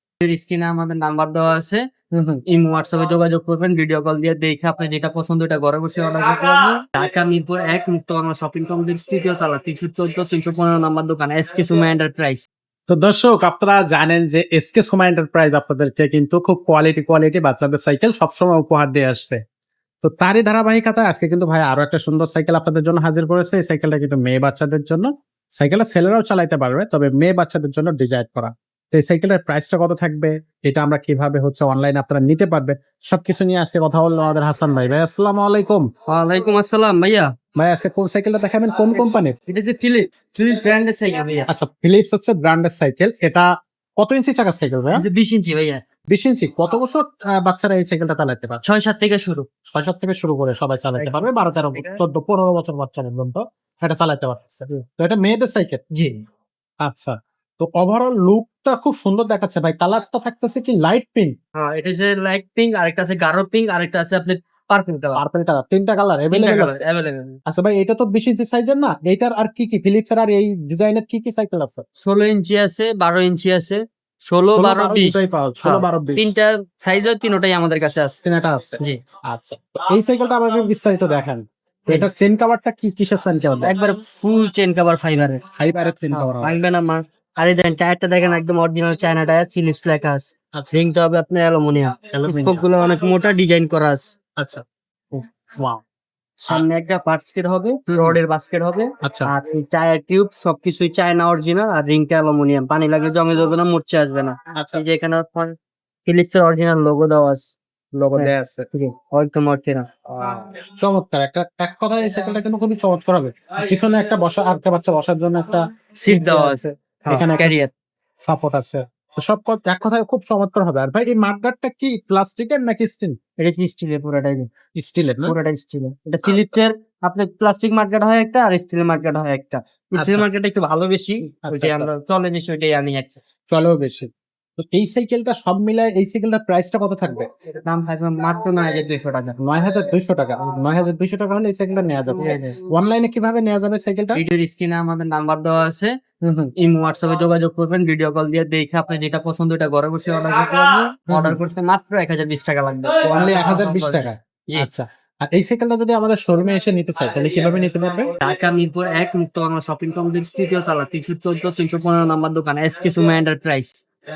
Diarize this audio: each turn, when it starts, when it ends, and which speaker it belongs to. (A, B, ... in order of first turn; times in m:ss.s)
0:00.2-0:01.8 A
0:02.1-0:02.4 B
0:02.5-0:12.4 A
0:12.9-0:19.4 B
0:20.0-0:35.9 B
0:36.1-0:37.3 A
0:37.6-0:39.4 B
0:39.5-0:41.5 A
0:41.5-0:43.5 B
0:44.0-0:45.0 B
0:44.9-0:45.8 A
0:46.1-0:48.6 B
0:48.6-0:49.5 A
0:49.7-0:55.8 B
0:51.0-0:52.0 A
0:56.8-1:01.3 B
1:01.6-1:05.2 A
1:05.2-1:06.8 B
1:06.3-1:07.4 A
1:07.5-1:11.8 B
1:12.0-1:18.2 A
1:14.5-1:16.3 B
1:18.2-1:23.8 B
1:23.6-1:25.4 A
1:25.6-1:26.5 B
1:26.1-1:34.0 A
1:32.1-1:32.6 B
1:34.4-1:35.8 B
1:36.4-1:45.6 A
1:37.9-1:38.2 B
1:39.0-1:39.3 B
1:44.6-1:44.8 B
1:46.1-1:47.6 A
1:47.9-1:48.7 B
1:48.1-1:49.9 A
1:50.1-1:57.7 B
1:56.0-1:57.7 A
1:58.2-2:03.2 B
2:03.4-2:04.5 A
2:04.8-2:05.3 B
2:05.3-2:13.2 A
2:10.0-2:10.3 B
2:11.4-2:11.9 B
2:13.5-2:17.3 B
2:17.5-2:19.4 A
2:19.4-2:24.2 B
2:22.2-2:22.6 A
2:24.2-2:25.9 A
2:26.2-2:26.5 B
2:26.6-2:34.7 A
2:31.1-2:31.4 B
2:33.0-2:38.1 B
2:38.2-2:43.8 A